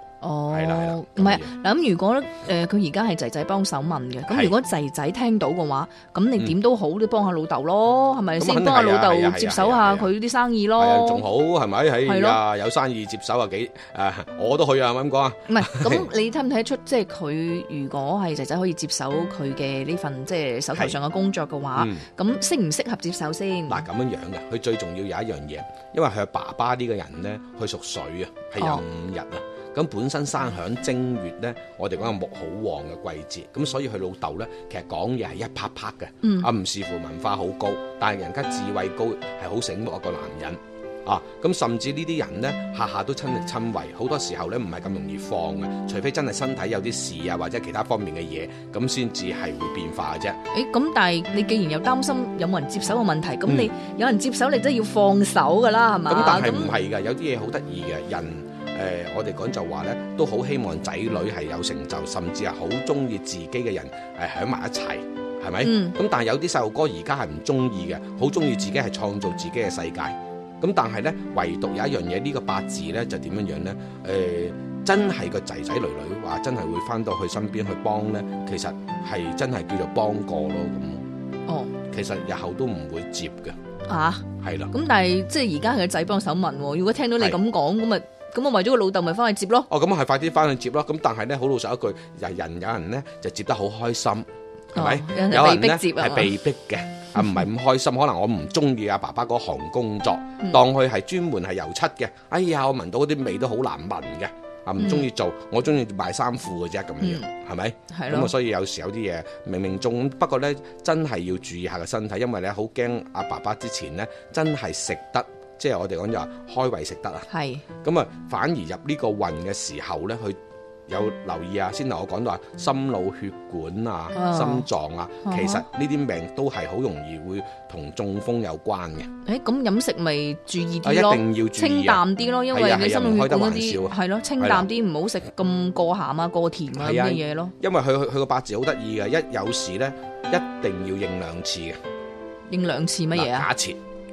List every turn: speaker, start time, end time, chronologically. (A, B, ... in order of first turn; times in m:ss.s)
0:00.2-0:11.2 A
0:00.5-0:01.5 B
0:04.3-0:04.5 B
0:08.4-0:10.1 B
0:10.8-0:16.1 B
0:12.0-0:12.4 A
0:15.5-0:23.8 A
0:21.7-0:22.0 B
0:23.7-0:50.4 B
0:28.6-0:28.8 A
0:36.2-0:36.5 A
0:50.5-0:56.7 A
0:53.5-0:53.7 B
0:56.1-1:21.0 B
1:05.6-1:06.0 A
1:21.5-1:21.7 A
1:21.9-1:23.6 B
1:23.8-1:29.7 A
1:24.4-1:24.7 B
1:29.7-1:57.3 B
1:34.7-1:36.3 A
1:44.8-1:45.1 A
1:47.0-1:47.3 A
1:47.9-1:48.3 A
1:57.3-1:57.6 A
1:57.8-2:09.1 B
2:04.1-2:04.7 A
2:05.2-2:05.6 A
2:09.2-2:17.5 A
2:10.8-2:14.7 B
2:16.7-2:21.8 B
2:22.5-2:23.5 A
2:23.1-2:23.8 B